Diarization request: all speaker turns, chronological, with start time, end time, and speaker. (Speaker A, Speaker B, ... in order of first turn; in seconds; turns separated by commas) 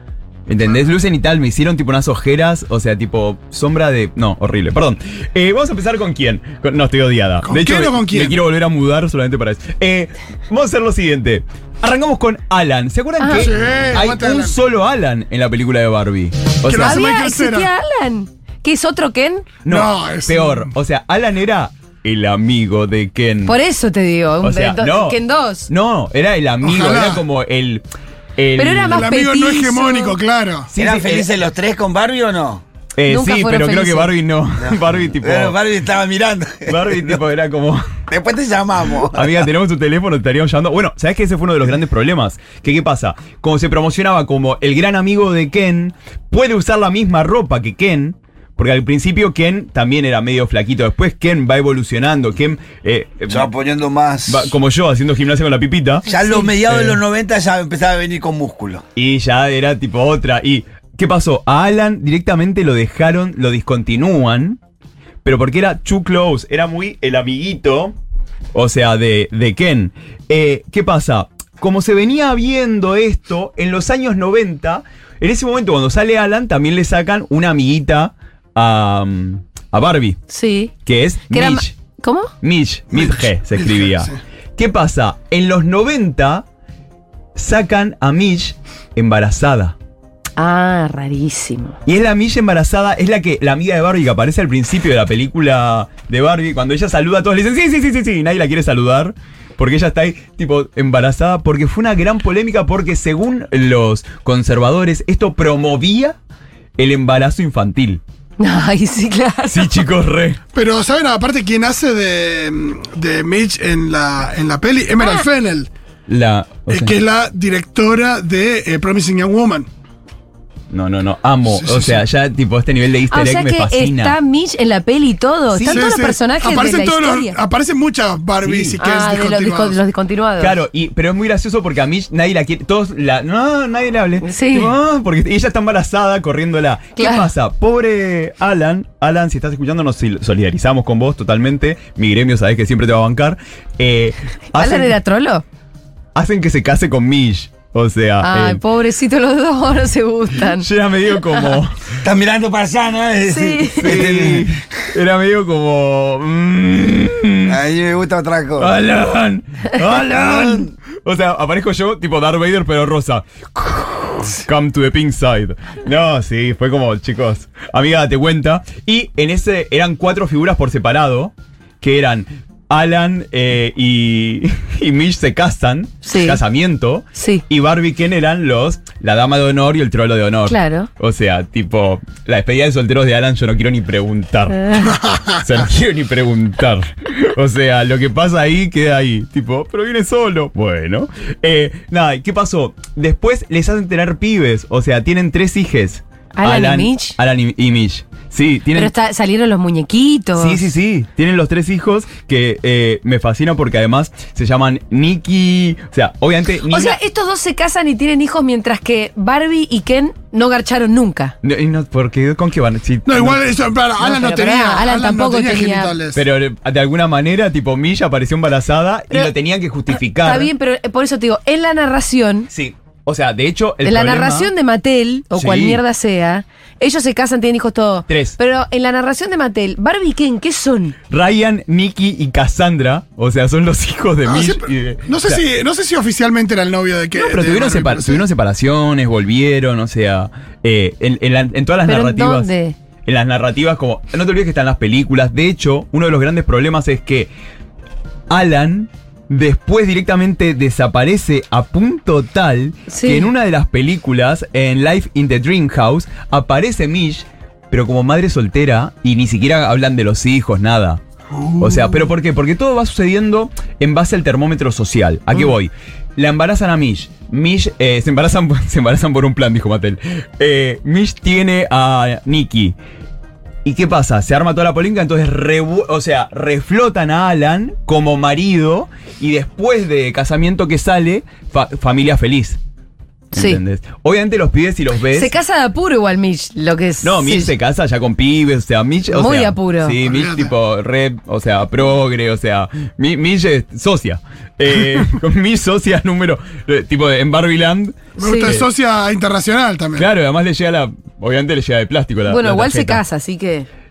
Speaker A: 0.5-17.1, Speaker B: 7.4-8.4, Speaker C: 13.2-13.5, Speaker B: 13.4-14.5, Speaker B: 16.7-17.7, Speaker C: 16.7-19.6, Speaker A: 19.6-23.6, Speaker B: 19.7-20.7, Speaker C: 23.4-25.7, Speaker A: 24.4-27.8, Speaker B: 26.6-27.2, Speaker A: 28.4-29.1, Speaker C: 28.6-30.2, Speaker B: 28.9-30.7, Speaker A: 30.7-31.3, Speaker D: 30.8-32.6, Speaker A: 33.0-35.5, Speaker C: 33.1-34.1, Speaker D: 34.6-37.1, Speaker A: 36.6-37.9, Speaker D: 38.1-39.4, Speaker A: 39.1-53.5, Speaker D: 53.3-54.5, Speaker A: 54.3-56.1, Speaker D: 56.1-58.8, Speaker A: 56.6-57.0, Speaker A: 59.0-64.6, Speaker A: 65.2-67.9, Speaker A: 68.5-80.2, Speaker C: 80.3-80.7, Speaker A: 80.8-81.7, Speaker C: 81.3-82.3, Speaker A: 82.4-86.5, Speaker B: 82.9-84.2, Speaker A: 87.3-89.8, Speaker C: 90.4-91.8, Speaker A: 91.8-106.2, Speaker A: 106.8-108.0, Speaker C: 108.4-109.8, Speaker A: 109.5-110.4, Speaker B: 110.5-115.7, Speaker C: 115.0-115.2, Speaker A: 116.1-117.0, Speaker B: 116.7-119.7, Speaker A: 120.7-124.2, Speaker B: 121.5-122.0, Speaker C: 123.1-127.3, Speaker A: 125.5-125.9, Speaker B: 125.7-129.8, Speaker A: 128.4-128.8, Speaker C: 128.8-130.6, Speaker A: 130.4-145.0, Speaker C: 134.2-134.7, Speaker C: 136.9-137.3, Speaker C: 144.5-145.4, Speaker A: 146.1-148.6, Speaker C: 148.2-150.7, Speaker A: 150.4-152.0, Speaker C: 151.3-151.6, Speaker D: 152.0-154.5, Speaker C: 153.3-154.0, Speaker A: 153.8-157.6, Speaker D: 157.5-158.7, Speaker A: 158.6-198.9, Speaker D: 159.9-160.7, Speaker C: 176.0-176.4, Speaker C: 177.2-177.4, Speaker C: 180.5-180.9, Speaker C: 184.5-185.0, Speaker C: 196.3-197.2, Speaker C: 198.7-200.7, Speaker A: 200.3-207.0, Speaker C: 206.7-211.3, Speaker A: 211.4-213.4, Speaker B: 213.1-216.2, Speaker C: 214.0-215.9, Speaker A: 216.1-220.5, Speaker C: 219.9-222.5, Speaker A: 222.5-224.5, Speaker C: 223.8-230.9, Speaker A: 225.3-225.8, Speaker A: 228.1-228.3, Speaker A: 231.1-235.4, Speaker B: 234.2-238.2, Speaker A: 237.1-242.5, Speaker C: 241.9-242.8, Speaker A: 243.1-247.3, Speaker A: 248.3-261.0, Speaker C: 252.9-253.3, Speaker B: 261.3-262.0, Speaker A: 261.6-272.8, Speaker A: 273.6-282.6, Speaker A: 283.3-285.3, Speaker C: 283.3-283.6, Speaker C: 285.1-287.5, Speaker A: 287.0-298.7, Speaker C: 289.1-290.0, Speaker B: 290.0-290.5, Speaker B: 298.2-300.1, Speaker C: 298.2-298.6, Speaker A: 299.9-303.0, Speaker C: 302.3-303.7